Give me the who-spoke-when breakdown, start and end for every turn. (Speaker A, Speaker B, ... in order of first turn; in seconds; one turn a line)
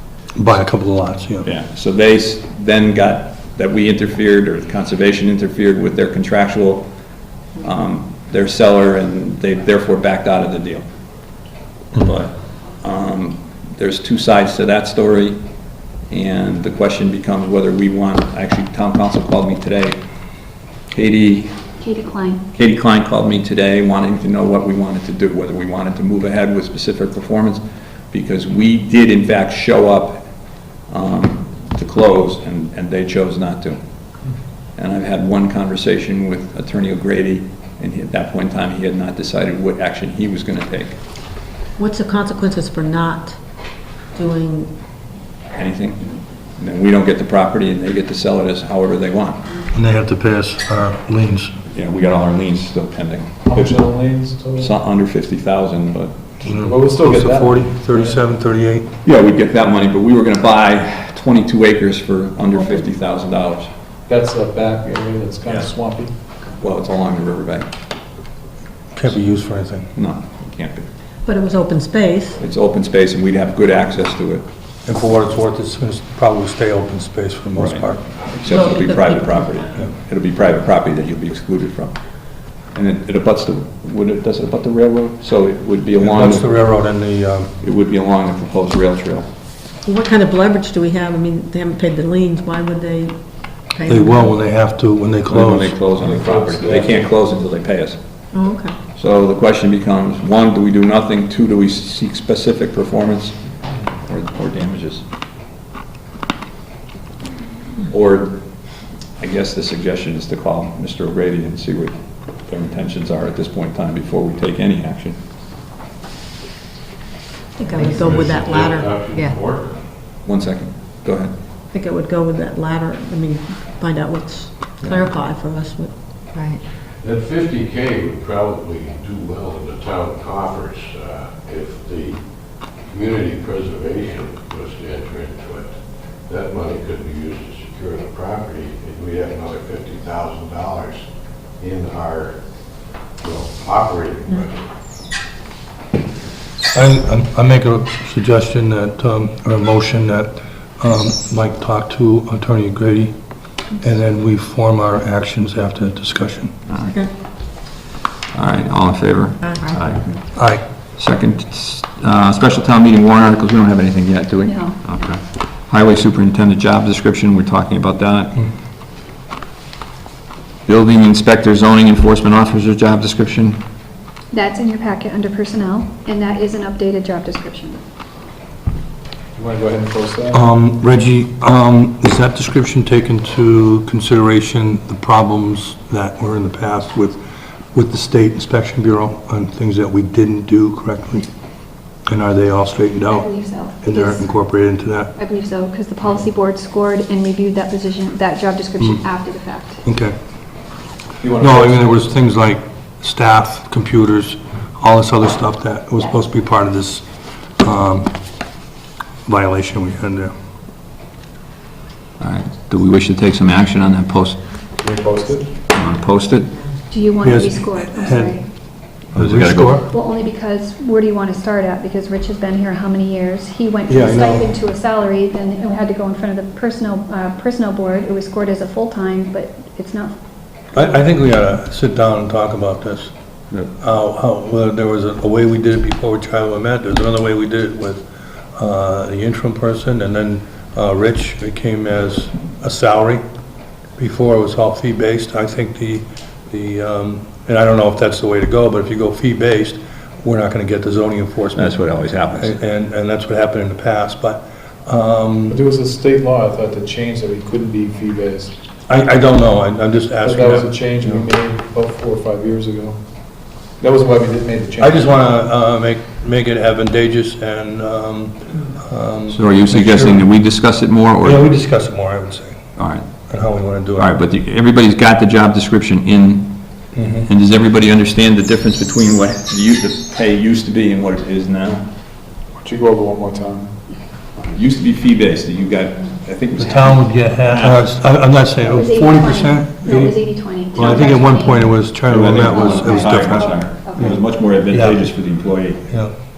Speaker A: 0.3-1.5
Speaker B: 1.4-6.9
Speaker B: 7.6-10.8
Speaker B: 12.0-15.4
Speaker B: 16.1-20.0
Speaker B: 20.9-21.5
Speaker C: 21.8-22.4
Speaker B: 22.5-30.3
Speaker B: 30.9-33.8
Speaker B: 34.8-41.0
Speaker D: 41.8-43.4
Speaker D: 44.1-44.7
Speaker B: 45.5-49.4
Speaker A: 49.7-51.5
Speaker B: 51.7-53.4
Speaker E: 53.5-54.7
Speaker B: 54.6-56.2
Speaker E: 56.4-58.1
Speaker A: 56.4-58.9
Speaker B: 59.0-63.7
Speaker E: 64.1-66.1
Speaker B: 66.6-67.7
Speaker A: 68.9-69.9
Speaker B: 69.9-70.9
Speaker D: 71.2-72.4
Speaker B: 72.4-74.4
Speaker A: 74.8-78.0
Speaker B: 77.6-77.8
Speaker B: 78.4-82.0
Speaker D: 78.4-79.5
Speaker B: 82.7-86.6
Speaker A: 86.0-87.6
Speaker B: 87.6-89.3
Speaker D: 89.8-94.3
Speaker A: 93.9-95.8
Speaker B: 95.3-98.0
Speaker E: 96.0-97.1
Speaker D: 98.3-98.8
Speaker B: 98.9-103.4
Speaker B: 104.0-105.0
Speaker B: 107.9-108.4
Speaker B: 109.2-115.2
Speaker D: 117.6-119.1
Speaker F: 117.8-119.7
Speaker B: 120.2-121.3
Speaker D: 121.7-125.9
Speaker F: 127.0-132.2
Speaker F: 132.9-135.7
Speaker F: 136.3-141.0
Speaker F: 141.6-142.4
Speaker F: 143.2-144.6
Speaker A: 146.7-153.1
Speaker A: 153.8-156.5
Speaker D: 156.8-157.1
Speaker B: 158.3-168.4
Speaker D: 159.4-159.8
Speaker A: 160.3-160.6
Speaker C: 164.4-164.8
Speaker B: 170.7-173.6
Speaker C: 174.3-177.8
Speaker E: 179.3-180.4
Speaker A: 180.3-187.2
Speaker A: 187.7-191.3
Speaker A: 192.1-195.1
Speaker C: 193.1-194.3
Speaker C: 195.2-199.8
Speaker A: 198.8-199.1
Speaker A: 199.8-200.2
Speaker E: 201.2-201.5
Speaker A: 201.4-208.2
Speaker A: 209.2-210.3
Speaker B: 212.2-214.4
Speaker E: 214.8-215.5
Speaker B: 215.7-216.5
Speaker C: 216.9-218.4
Speaker A: 217.2-218.4
Speaker A: 219.1-219.9
Speaker B: 219.1-219.8
Speaker C: 219.9-230.2
Speaker A: 223.9-224.6
Speaker A: 230.7-233.1
Speaker A: 233.7-243.2
Speaker A: 244.0-255.6
Speaker B: 251.5-252.6
Speaker E: 255.5-258.5
Speaker A: 258.9-261.2
Speaker E: 260.2-263.0
Speaker E: 263.8-265.3
Speaker A: 264.8-270.3
Speaker B: 269.3-271.5
Speaker A: 271.2-272.7
Speaker B: 272.8-273.1
Speaker A: 273.3-274.2
Speaker B: 274.0-281.9
Speaker A: 276.9-277.3
Speaker E: 282.6-283.7
Speaker B: 284.4-287.9
Speaker A: 286.6-295.1
Speaker C: 288.6-291.8
Speaker B: 290.7-291.4
Speaker B: 292.0-295.9
Speaker C: 292.3-294.3
Speaker A: 295.9-296.1